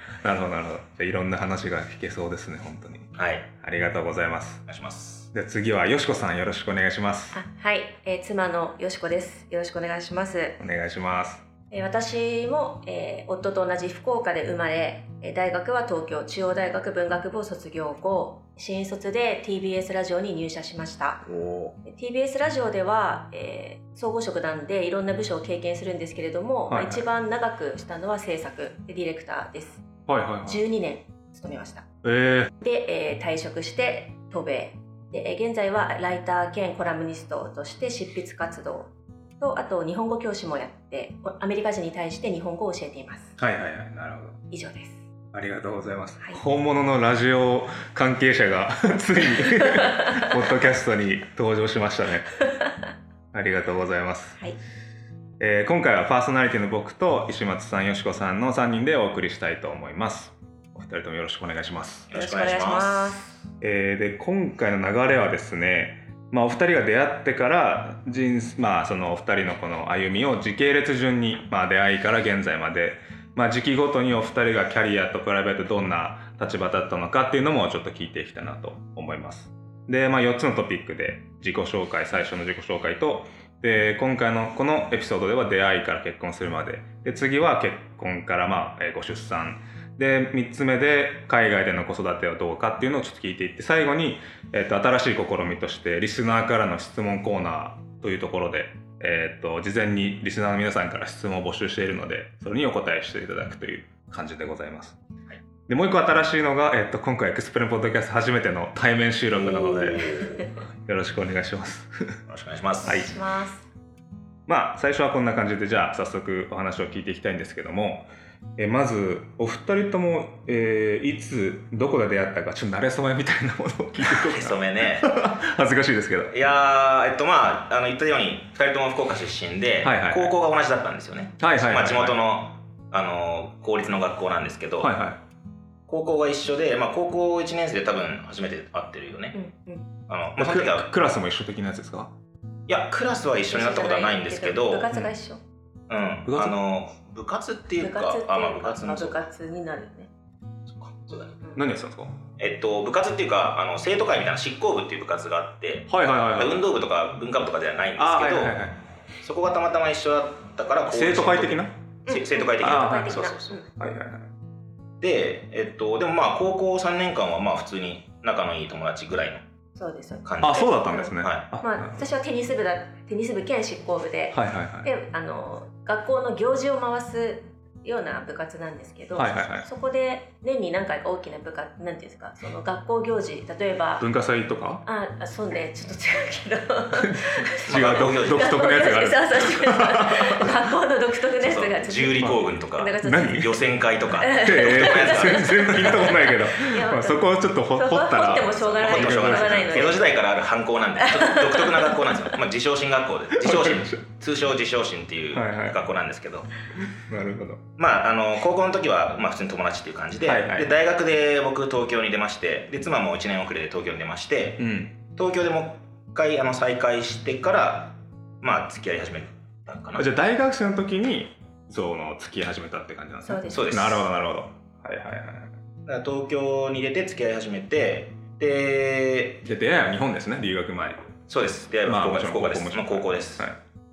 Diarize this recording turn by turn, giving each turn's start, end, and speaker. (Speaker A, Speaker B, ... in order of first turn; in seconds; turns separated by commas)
Speaker A: 0.2-4.7, Speaker B: 3.2-3.5, Speaker B: 4.7-5.3, Speaker A: 5.3-7.4, Speaker C: 7.3-10.6, Speaker A: 10.6-11.4, Speaker C: 11.7-21.2, Speaker A: 21.2-21.7, Speaker C: 21.8-29.9, Speaker A: 26.7-27.0, Speaker A: 30.1-30.6, Speaker C: 30.4-31.9, Speaker A: 32.0-32.5, Speaker C: 32.6-43.4, Speaker A: 43.4-44.4, Speaker C: 44.5-45.0, Speaker A: 45.3-52.4, Speaker A: 53.3-54.4, Speaker A: 55.4-62.1, Speaker B: 62.1-63.1, Speaker C: 62.1-63.3, Speaker A: 63.6-105.0, Speaker A: 105.7-110.2, Speaker B: 109.3-110.5, Speaker A: 110.8-112.2, Speaker B: 112.3-113.0, Speaker C: 112.8-113.6, Speaker A: 112.8-113.1, Speaker A: 114.5-126.3, Speaker B: 124.0-125.1, Speaker B: 126.3-134.9, Speaker A: 129.8-130.3, Speaker A: 131.4-132.2, Speaker A: 134.8-135.2, Speaker B: 135.9-139.3, Speaker C: 139.3-139.9, Speaker B: 140.1-140.9, Speaker A: 140.4-142.1, Speaker B: 142.7-144.9, Speaker C: 143.5-145.4, Speaker B: 145.9-149.2, Speaker A: 146.3-146.6, Speaker C: 147.8-150.1, Speaker B: 150.7-151.4, Speaker A: 151.6-152.2, Speaker B: 152.4-158.6, Speaker A: 155.9-156.6, Speaker A: 158.0-158.8, Speaker B: 159.2-163.6, Speaker A: 160.9-161.7, Speaker C: 162.1-163.7, Speaker A: 162.6-164.3, Speaker B: 165.0-169.4, Speaker C: 169.7-184.1, Speaker B: 170.2-171.4, Speaker A: 170.4-172.1, Speaker A: 174.3-174.9, Speaker A: 179.1-179.7, Speaker A: 184.0-184.8, Speaker C: 184.8-193.5, Speaker A: 186.9-190.6, Speaker B: 187.7-188.7, Speaker B: 191.4-196.1, Speaker A: 193.0-193.6, Speaker C: 194.2-200.1, Speaker A: 194.3-200.1, Speaker B: 198.4-206.5, Speaker C: 201.0-202.1, Speaker A: 203.4-204.0, Speaker A: 205.3-205.8, Speaker A: 207.1-207.6, Speaker B: 207.8-214.6, Speaker A: 210.2-210.7, Speaker A: 214.6-214.9, Speaker B: 215.2-220.1, Speaker A: 220.0-225.5, Speaker C: 223.2-223.8, Speaker B: 223.5-224.1, Speaker B: 225.9-229.4, Speaker A: 229.4-231.1, Speaker B: 231.3-233.5, Speaker A: 231.8-233.6